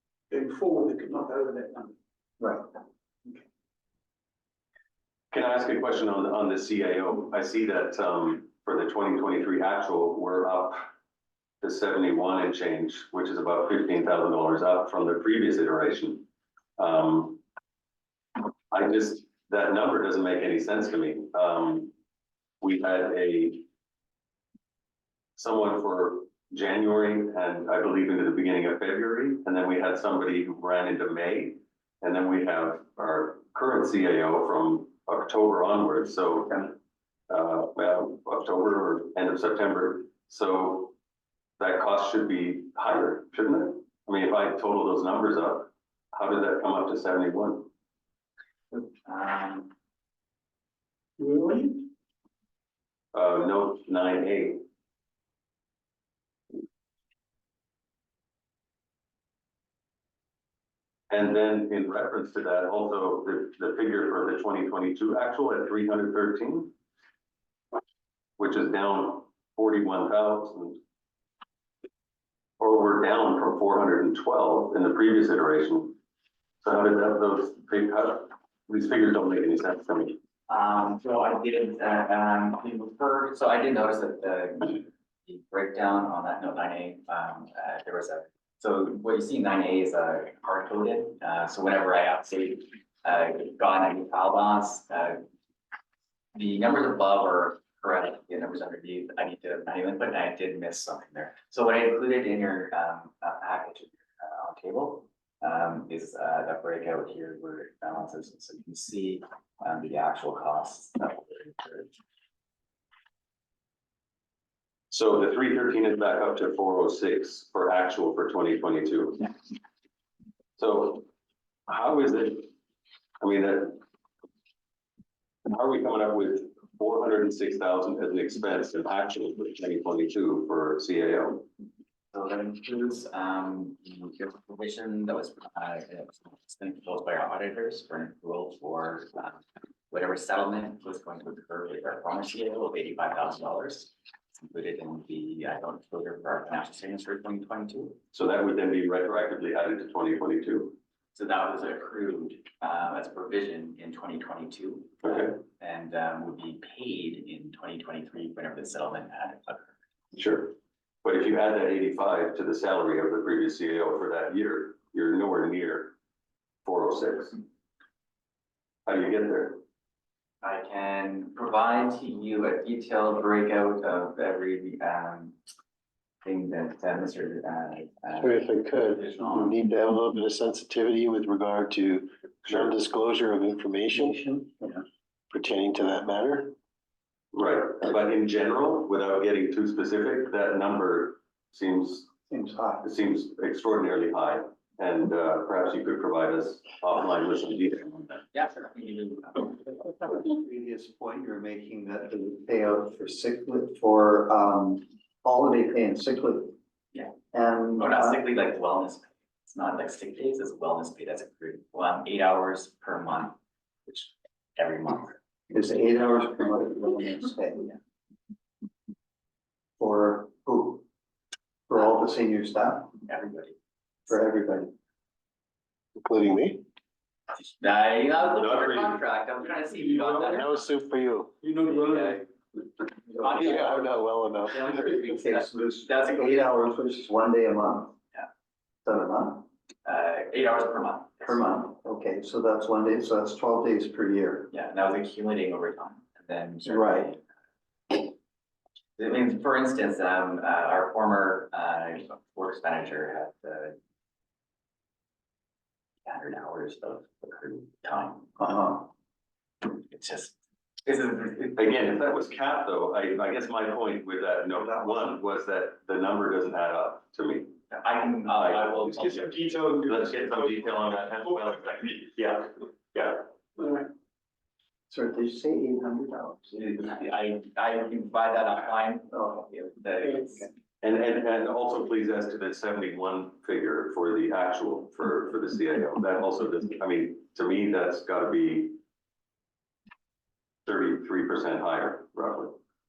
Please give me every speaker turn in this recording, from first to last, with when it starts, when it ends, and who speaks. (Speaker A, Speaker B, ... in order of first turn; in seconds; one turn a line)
Speaker A: 0.3-1.9
Speaker B: 5.3-10.9
Speaker B: 11.6-16.3
Speaker B: 16.8-17.4
Speaker B: 18.7-21.9
Speaker B: 22.6-23.6
Speaker B: 25.4-36.8
Speaker B: 37.3-40.9
Speaker B: 41.6-47.7
Speaker C: 48.7-49.7
Speaker A: 51.2-51.9
Speaker B: 53.1-54.6
Speaker B: 61.1-66.7
Speaker B: 68.4-70.8
Speaker B: 72.6-76.0
Speaker B: 76.6-80.2
Speaker C: 80.5-95.2
Speaker C: 96.3-111.9
Speaker B: 114.9-119.3
Speaker B: 120.6-121.1
Speaker B: 121.7-122.5
Speaker B: 123.2-123.8
Speaker B: 125.4-131.5
Speaker C: 132.1-148.0
Speaker B: 148.1-150.8
Speaker C: 151.1-159.7
Speaker B: 155.0-155.3
Speaker B: 160.1-165.9
Speaker B: 166.6-167.4
Speaker B: 168.8-169.6
Speaker C: 170.4-175.4
Speaker C: 176.2-179.6
Speaker D: 178.2-184.2
Speaker B: 182.5-182.7
Speaker E: 183.9-184.8
Speaker D: 185.3-186.5
Speaker B: 187.3-192.1
Speaker E: 192.3-192.9
Speaker B: 192.8-198.2
Speaker C: 198.3-199.7
Speaker E: 199.8-206.5
Speaker E: 207.3-208.2
Speaker C: 207.8-215.2
Speaker E: 215.5-217.7
Speaker E: 219.8-220.8
Speaker E: 221.7-223.0
Speaker C: 223.1-223.6
Speaker E: 224.1-224.7
Speaker D: 226.0-226.6
Speaker C: 227.3-230.6
Speaker B: 228.4-229.0
Speaker A: 229.6-230.6
Speaker D: 230.3-231.3
Speaker A: 231.4-232.2
Speaker C: 231.7-232.2
Speaker C: 233.1-236.5
Speaker D: 233.3-234.8
Speaker E: 234.7-237.9
Speaker E: 238.8-239.5
Speaker C: 239.8-241.4
Speaker E: 241.2-244.5
Speaker C: 244.5-247.2
Speaker E: 246.7-247.1
Speaker C: 249.0-253.8
Speaker C: 256.0-258.3
Speaker E: 258.4-258.9
Speaker C: 259.6-261.6
Speaker B: 261.6-267.6
Speaker C: 267.7-269.3
Speaker B: 268.4-269.3
Speaker A: 268.8-272.1
Speaker B: 269.8-273.2
Speaker A: 273.6-273.9
Speaker E: 274.9-276.6
Speaker C: 276.5-280.5
Speaker E: 279.1-279.5
Speaker B: 280.8-288.8
Speaker B: 290.6-292.6